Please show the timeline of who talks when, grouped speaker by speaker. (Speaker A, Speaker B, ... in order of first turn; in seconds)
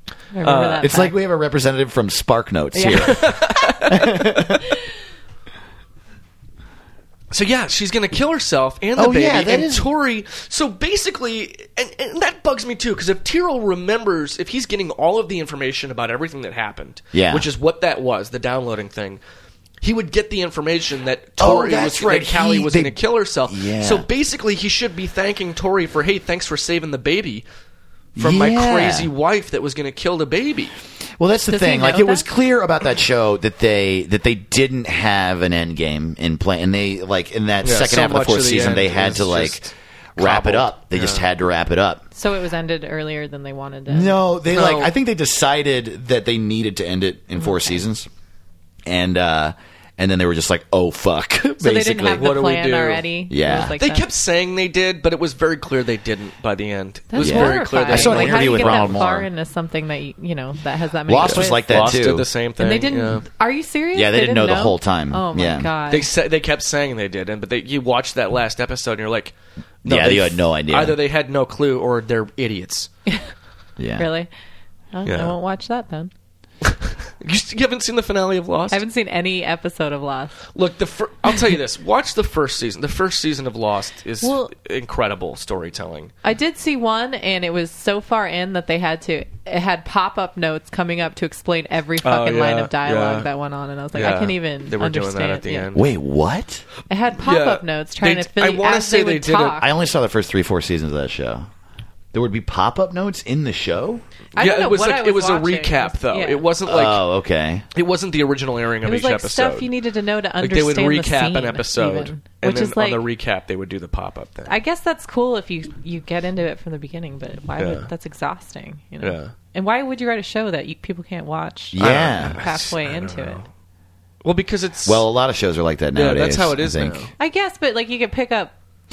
Speaker A: 0.3-1.1, 2.7-3.3, 31.5-32.3, 42.1-44.2, 51.6-54.1, 57.1-62.0, 62.6-66.1, 74.0-74.3, 74.9-76.1, 78.7-80.4, 84.2-84.5, 86.2-95.7, 96.9-99.7, 104.3-106.5, 108.8-113.0, 114.5-123.4, 127.2-128.5
Speaker B: 0.4-0.9, 3.0-4.2, 7.3-19.2, 19.8-27.4, 28.2-30.7, 37.6-41.2, 44.5-44.9, 52.1-59.0, 61.2-63.2, 65.9-72.9, 75.0-75.3, 76.6-78.8, 80.5-86.1, 92.0-93.3, 93.9-95.9, 97.2-99.6, 104.3-107.0, 107.7-109.7, 110.4-114.5, 117.6-117.9, 119.0-119.3, 121.8-123.5, 124.2-125.0, 125.9-127.1
Speaker C: 0.8-3.2, 3.9-4.6, 8.9-9.9, 17.1-17.5, 21.4-24.1, 28.1-29.1, 31.2-42.0, 43.9-48.1, 48.9-52.3, 53.3-53.8, 57.2-59.3, 61.1-62.3, 63.9-65.7, 69.8-71.0, 73.8-74.1, 95.7-96.6, 99.6-101.5, 102.1-104.0, 106.7-107.7, 121.7-122.4, 124.8-127.1